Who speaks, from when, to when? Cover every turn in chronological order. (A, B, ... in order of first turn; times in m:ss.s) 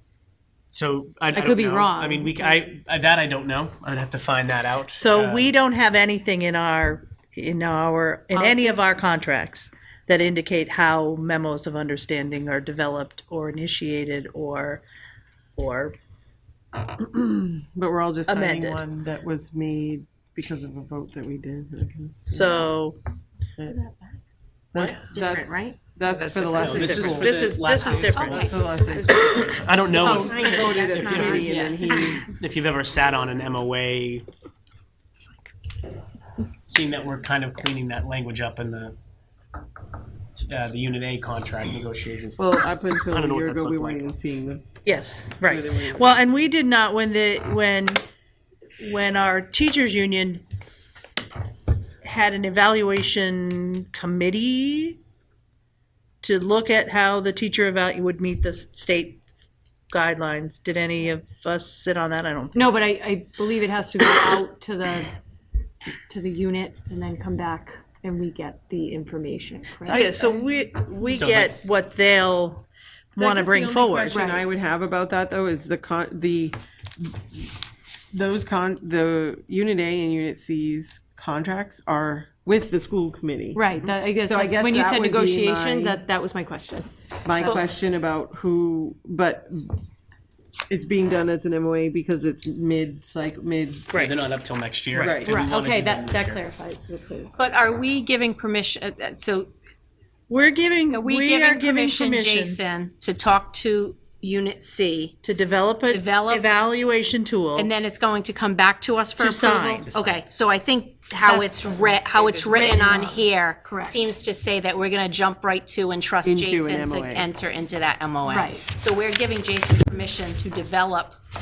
0:00.7-0:05.5 A
0:01.3-0:02.6 B
0:05.0-0:14.8 C
0:08.3-0:08.8 B
0:15.6-0:16.0 C
0:16.9-0:22.8 D
0:18.3-0:18.8 C
0:22.3-0:23.0 C
0:23.6-0:24.0 D
0:24.7-0:27.3 D
0:24.8-0:26.8 E
0:26.5-0:29.6 C
0:26.6-0:28.5 A
0:27.7-0:28.6 E
0:28.3-0:32.3 D
0:29.4-0:34.2 A
0:29.9-0:32.2 E
0:36.6-0:39.0 A
0:40.4-0:42.5 A
0:42.4-0:44.6 D
0:43.1-0:44.1 A
0:44.8-0:48.0 C
0:45.4-0:46.1 D
0:48.8-0:50.4 C
0:52.0-0:55.0 C
0:56.2-0:59.2 C
0:59.9-1:02.8 C
1:02.5-1:05.2 B
1:06.1-1:10.4 B
1:09.8-1:14.2 C
1:11.2-1:11.7 A
1:13.2-1:17.6 D
1:14.1-1:14.4 B
1:18.1-1:26.0 D
1:23.6-1:26.9 B
1:27.2-1:29.8 D
1:27.4-1:27.8 B
1:30.7-1:33.9 D
1:33.9-1:34.2 C
1:34.0-1:36.4 A
1:35.0-1:35.4 D
1:35.2-1:37.4 B
1:37.4-1:39.5 E
1:40.3-1:42.6 C
1:40.9-1:45.2 E
1:45.2-1:47.7 C
1:45.9-1:46.5 E
1:47.6-2:01.2 E
1:49.2-1:49.9 C
1:49.8-1:50.2 A
1:51.2-1:51.9 B
1:52.4-1:54.2 B
1:56.2-1:57.3 D
1:58.2-1:58.7 B